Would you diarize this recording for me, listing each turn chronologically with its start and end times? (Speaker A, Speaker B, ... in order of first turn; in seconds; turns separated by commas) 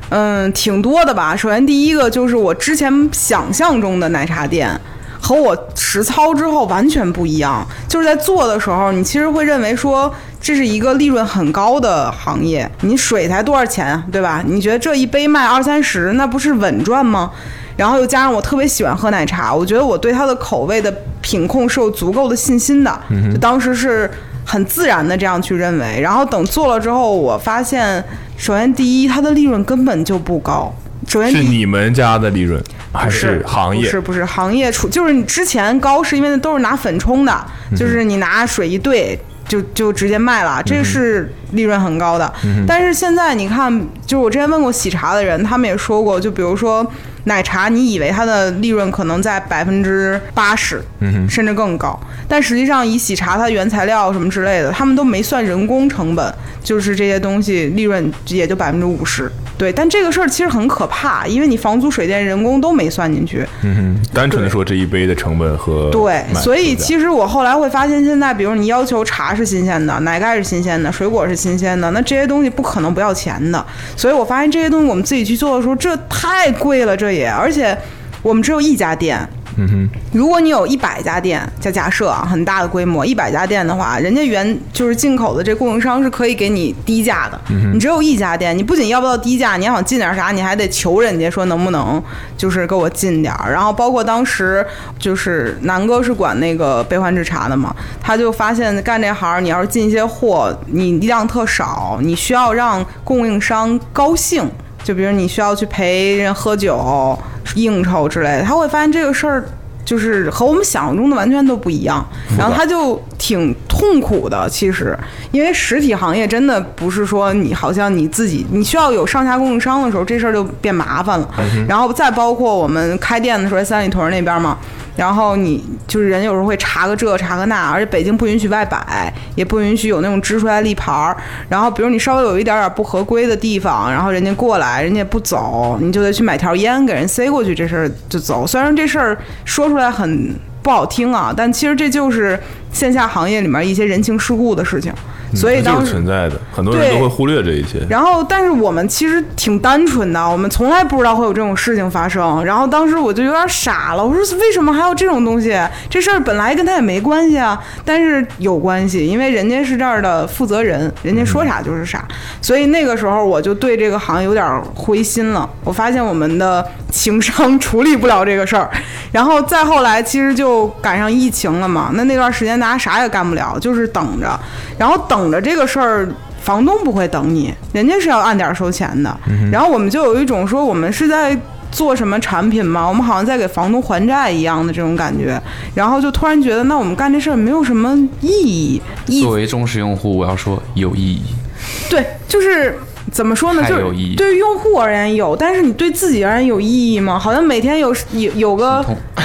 Speaker A: 0.1-31.6, Speaker B: 23.1-23.4, Speaker B: 31.2-34.0, Speaker A: 33.0-63.5, Speaker B: 37.7-38.0, Speaker B: 40.7-41.0, Speaker B: 42.4-42.7, Speaker B: 51.0-51.3, Speaker B: 63.6-66.9, Speaker A: 65.9-79.3, Speaker B: 79.5-80.0, Speaker A: 80.1-146.0, Speaker B: 87.5-87.8, Speaker B: 112.4-112.6, Speaker B: 121.4-121.7, Speaker B: 145.3-147.9, Speaker A: 146.7-147.2, Speaker A: 147.9-189.3, Speaker B: 179.3-179.6, Speaker C: 189.2-191.4, Speaker A: 191.9-198.9, Speaker C: 193.5-194.2, Speaker C: 198.7-199.0